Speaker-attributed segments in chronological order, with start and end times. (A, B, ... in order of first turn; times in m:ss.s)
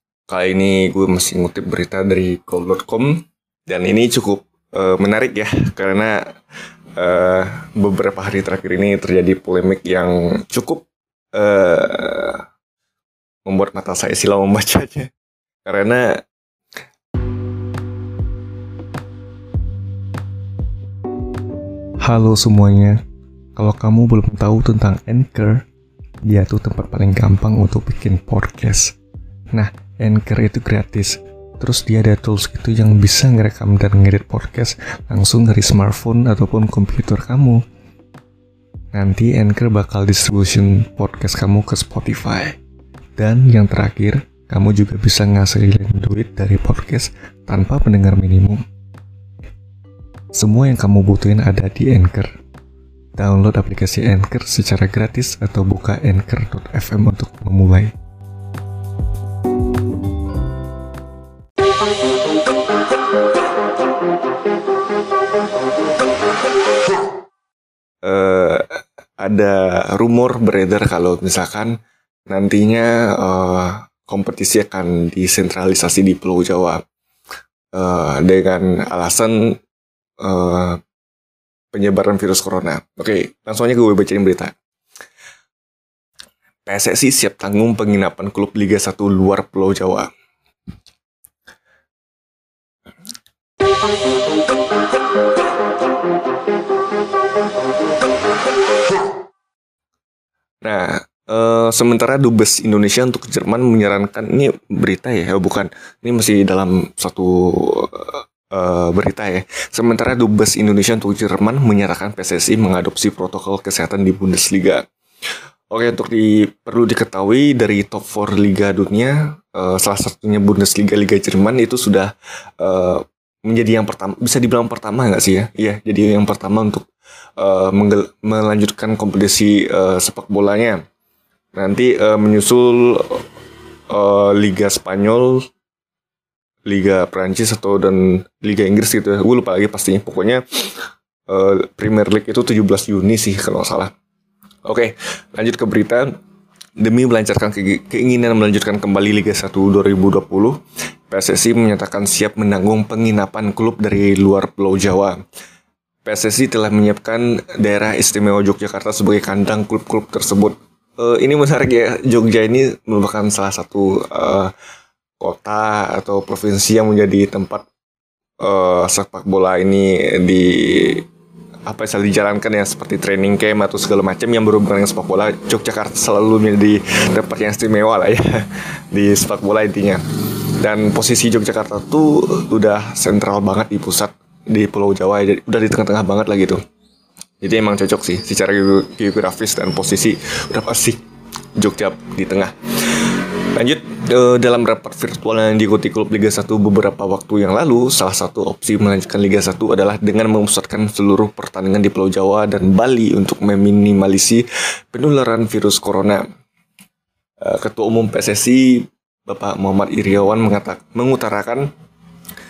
0:00.3-0:06.2 A
0:07.0-0:12.4 A
0:13.5-0:15.1 A
0:15.7-0:16.2 A
0:22.0-0:23.0 A
0:23.6-0:25.6 A
0:26.3-0:29.0 A
0:29.5-0:37.6 A
0:38.9-0:42.6 A
0:43.2-0:48.6 A
0:50.3-0:52.4 A
0:53.2-0:57.9 A
1:08.0-1:11.8 A
1:12.3-1:16.8 A
1:17.7-1:19.6 A
1:20.2-1:20.8 A
1:21.7-1:24.6 A
1:26.7-1:30.1 A
1:40.6-1:54.8 A
1:55.7-2:06.9 A
2:07.4-2:10.8 A
2:11.5-2:13.2 A
2:13.9-2:15.5 A
2:16.7-2:23.9 A
2:24.6-2:26.2 A
2:26.8-2:35.2 A
2:36.0-2:44.5 A
2:45.2-2:47.7 A
2:48.4-2:51.1 A
2:51.7-3:06.6 A
3:07.4-3:11.0 A
3:11.6-3:26.3 A
3:27.4-3:31.7 A